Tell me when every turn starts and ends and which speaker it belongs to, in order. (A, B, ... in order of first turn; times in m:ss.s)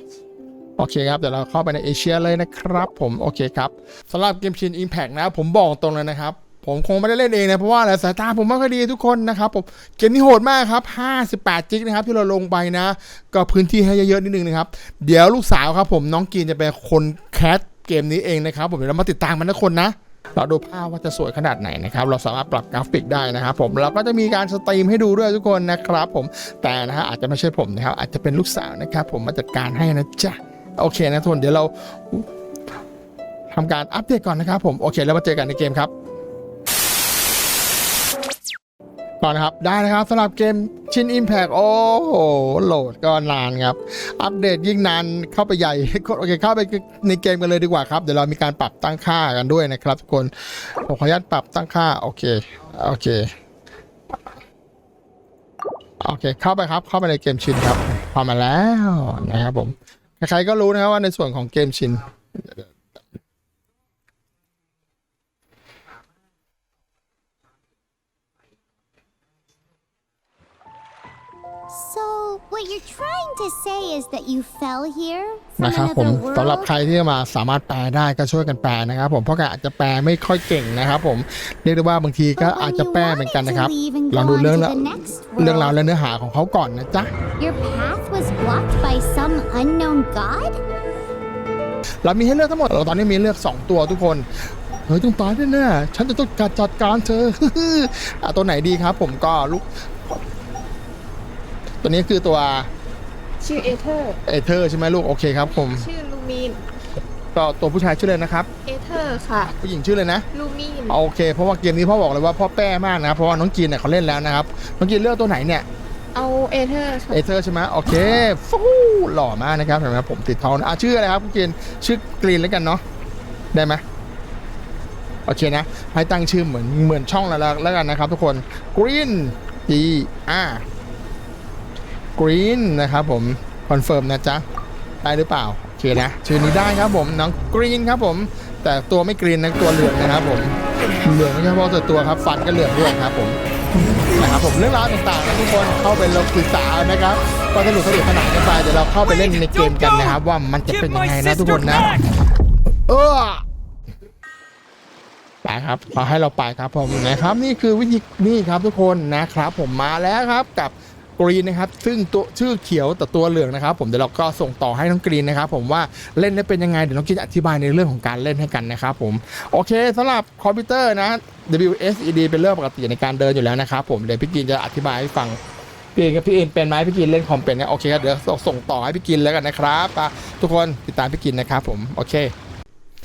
0:00.8-0:32.3 A
0:33.5-0:35.9 A
0:39.2-0:53.3 A
0:56.0-1:02.7 A
1:11.7-1:16.7 B
1:15.6-1:27.1 A
1:22.4-1:25.7 B
1:27.4-1:30.6 B
1:32.0-1:39.8 A
1:41.8-1:42.7 A
1:43.4-1:44.2 C
1:44.2-1:45.9 A
1:45.5-1:46.6 C
1:47.3-1:48.5 A
1:48.6-1:49.5 C
1:49.4-1:50.3 A
1:50.3-1:51.0 C
1:50.9-1:55.6 A
1:56.1-1:57.2 C
1:57.1-2:02.8 A
2:03.5-2:03.8 A
2:05.2-2:10.6 A
2:12.2-2:14.4 A
2:15.0-2:23.4 A
2:24.0-2:32.0 A
2:32.9-2:33.4 A
2:35.4-2:55.4 A
2:55.9-3:02.3 A